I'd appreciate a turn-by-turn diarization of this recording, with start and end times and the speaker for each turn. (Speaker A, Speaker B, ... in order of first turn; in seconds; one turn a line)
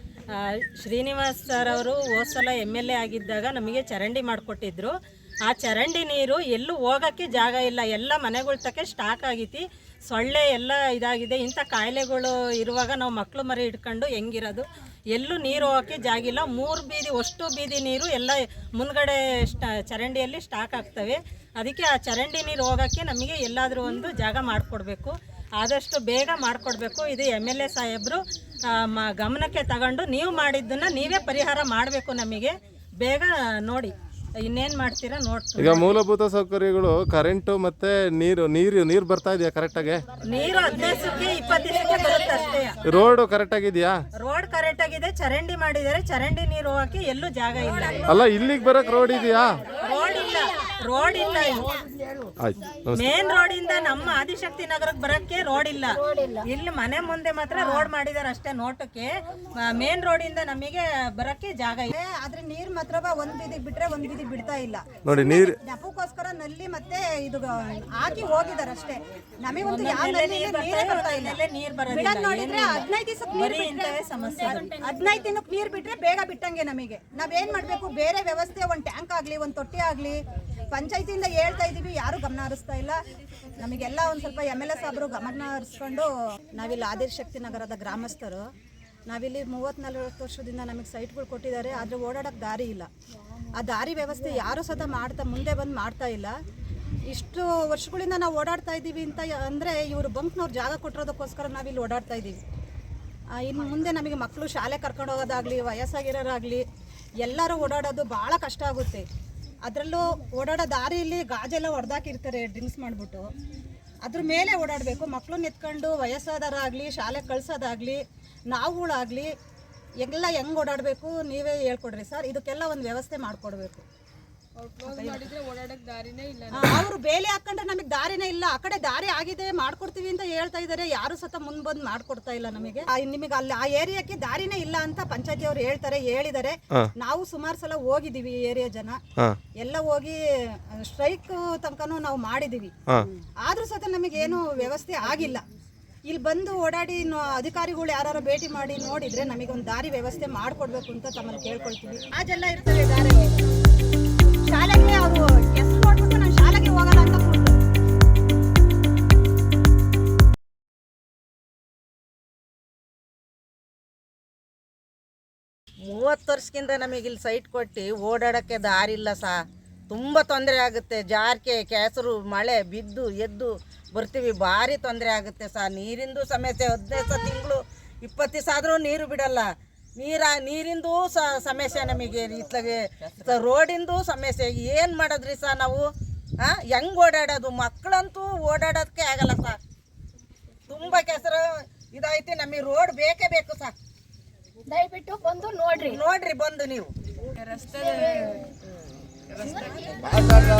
Speaker A: 0.3-4.9
Speaker A: 5.5-28.2
Speaker A: 28.8-33.9
Speaker A: 34.5-35.9
Speaker B: 35.6-40.1
Speaker A: 40.2-42.8
Speaker B: 42.8-44.0
Speaker A: 44.2-48.1
Speaker B: 48.1-49.6
Speaker A: 49.8-51.7
Speaker B: 52.4-53.1
Speaker A: 52.9-61.9
Speaker C: 56.0-56.4
Speaker D: 57.5-57.9
Speaker D: 61.9-71.4
Speaker B: 65.1-65.6
Speaker A: 69.6-74.8
Speaker D: 71.9-80.2
Speaker D: 80.7-83.0
Speaker D: 83.6-88.4
Speaker D: 89.1-92.9
Speaker D: 93.5-96.3
Speaker D: 97.1-102.4
Speaker D: 103.4-106.6
Speaker D: 107.2-109.0
Speaker D: 109.7-113.3
Speaker D: 114.0-118.0
Speaker D: 118.5-119.3
Speaker D: 120.0-123.8
Speaker C: 124.6-126.7
Speaker D: 124.9-125.3
Speaker D: 126.5-139.0
Speaker D: 139.6-140.2
Speaker D: 140.7-142.7
Speaker D: 143.4-145.4
Speaker D: 146.1-153.4
Speaker D: 154.4-157.6
Speaker E: 165.8-185.8
Speaker E: 186.4-189.6
Speaker E: 190.7-193.7
Speaker C: 194.7-196.0
Speaker E: 195.7-196.9
Speaker C: 197.4-198.4
Speaker C: 199.4-200.4